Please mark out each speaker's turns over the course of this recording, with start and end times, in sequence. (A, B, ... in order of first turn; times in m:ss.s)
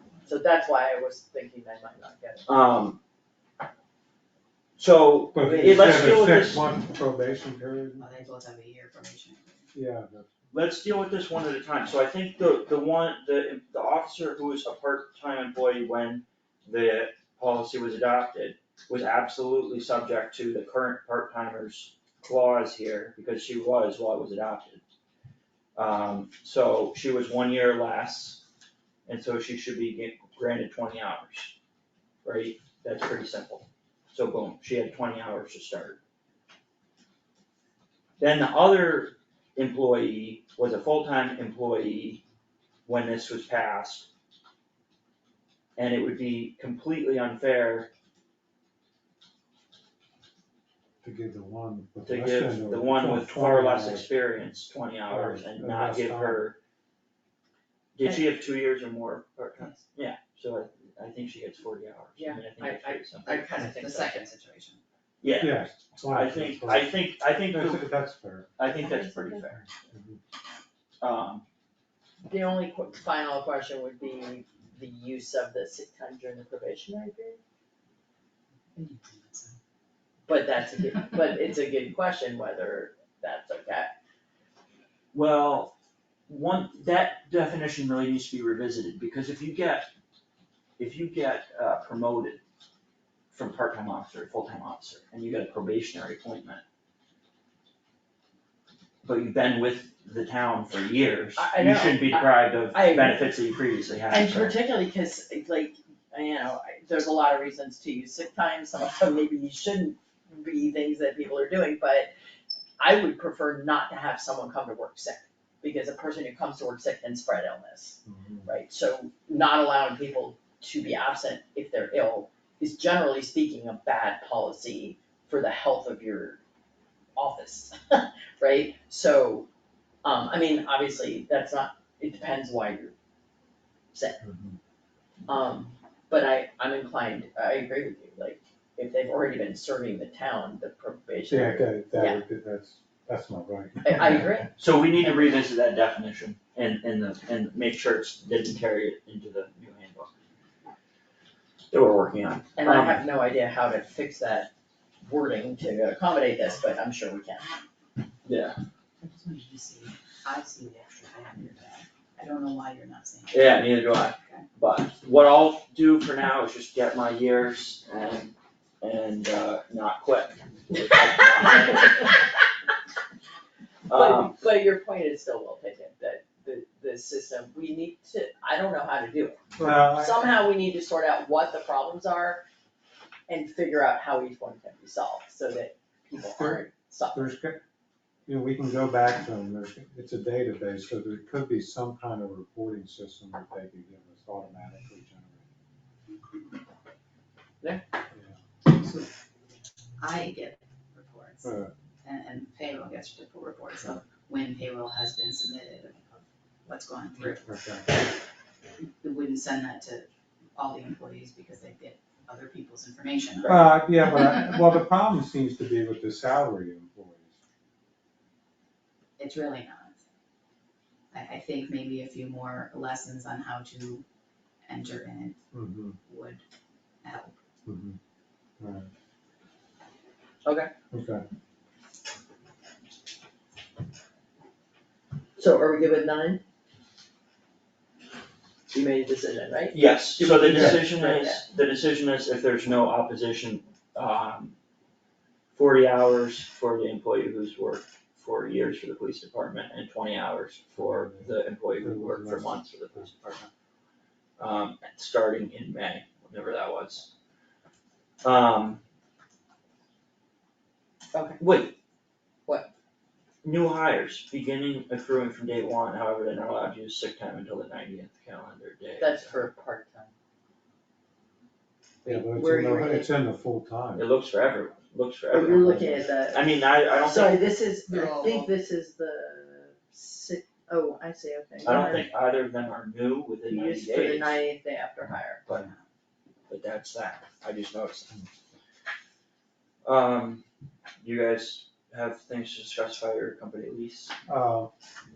0:00.2-0:02.6 A
0:02.4-0:03.0 B
0:04.8-0:06.6 B
0:05.3-0:08.0 C
0:05.4-0:06.1 A
0:08.0-0:09.7 D
0:09.7-0:10.3 C
0:10.5-0:24.8 B
0:25.8-0:28.4 B
0:29.0-0:31.5 B
0:32.2-0:36.0 B
0:38.2-0:42.2 B
0:42.8-0:44.1 B
0:45.8-0:47.9 B
0:51.0-0:54.1 C
0:52.0-0:56.6 B
0:55.1-0:56.4 C
0:57.9-1:03.5 B
1:02.2-1:04.2 A
1:03.2-1:04.8 D
1:05.2-1:07.9 B
1:05.4-1:07.0 C
1:07.5-1:08.6 C
1:08.6-1:09.7 B
1:08.7-1:09.4 A
1:09.6-1:10.2 C
1:11.0-1:11.4 B
1:12.3-1:17.4 A
1:18.7-1:19.6 D
1:20.2-1:23.9 A
1:25.1-1:25.7 B
1:26.3-1:29.9 B
1:30.8-1:32.4 B
1:33.3-1:36.6 B
1:39.0-1:44.6 B
1:41.4-1:43.3 A
1:44.1-1:52.1 A
1:52.8-2:06.4 A
1:58.0-1:58.5 C
2:07.2-2:09.5 A
2:10.0-2:12.9 A
2:13.9-2:14.2 A
2:14.2-2:14.6 C
2:15.3-2:22.2 A
2:21.3-2:24.5 C
2:23.8-2:25.4 A
2:24.6-2:30.1 B
2:31.7-2:33.0 B
2:32.6-2:34.5 A
2:35.0-2:37.6 A
2:38.2-2:38.6 B
2:39.0-2:43.6 D
2:43.3-2:52.2 B
2:44.2-2:44.4 D
2:53.9-2:54.3 B
2:53.9-3:02.4 A
2:59.6-3:00.4 C
3:03.3-3:07.3 A
3:06.4-3:06.6 C
3:07.1-3:07.6 C
3:08.3-3:15.4 C
3:18.1-3:18.4 C
3:18.6-3:19.1 D
3:20.0-3:21.5 D
3:21.4-3:21.7 C
3:22.0-3:27.5 D
3:27.2-3:27.9 C
3:28.8-3:34.3 D
3:33.4-3:33.7 A
3:33.4-3:37.3 C
3:39.2-3:40.0 D
3:41.1-3:44.0 D
3:44.6-3:45.4 D
3:45.5-3:46.0 C
3:46.0-3:46.4 D
3:47.0-3:47.4 D
3:47.6-3:48.0 C
3:48.6-3:48.9 C
3:50.4-3:50.7 A
3:50.9-3:51.2 C
3:55.4-3:56.4 A
3:58.7-4:01.4 A
3:59.7-4:04.5 B
4:00.5-4:00.9 C
4:05.5-4:13.2 B
4:10.8-4:13.5 C
4:14.4-4:17.1 B
4:18.2-4:18.8 B
4:21.1-4:21.4 A
4:21.4-4:21.8 B
4:23.4-4:29.3 B
4:29.0-4:30.1 A
4:32.0-4:33.1 A
4:32.0-4:34.0 C
4:34.0-4:37.4 B
4:35.3-4:42.1 A
4:37.9-4:38.5 D
4:41.6-4:44.4 B
4:43.4-4:45.5 A
4:45.5-4:45.8 D
4:46.5-4:48.1 B
4:49.8-4:50.4 B
4:51.0-4:54.1 B
4:54.3-4:54.7 C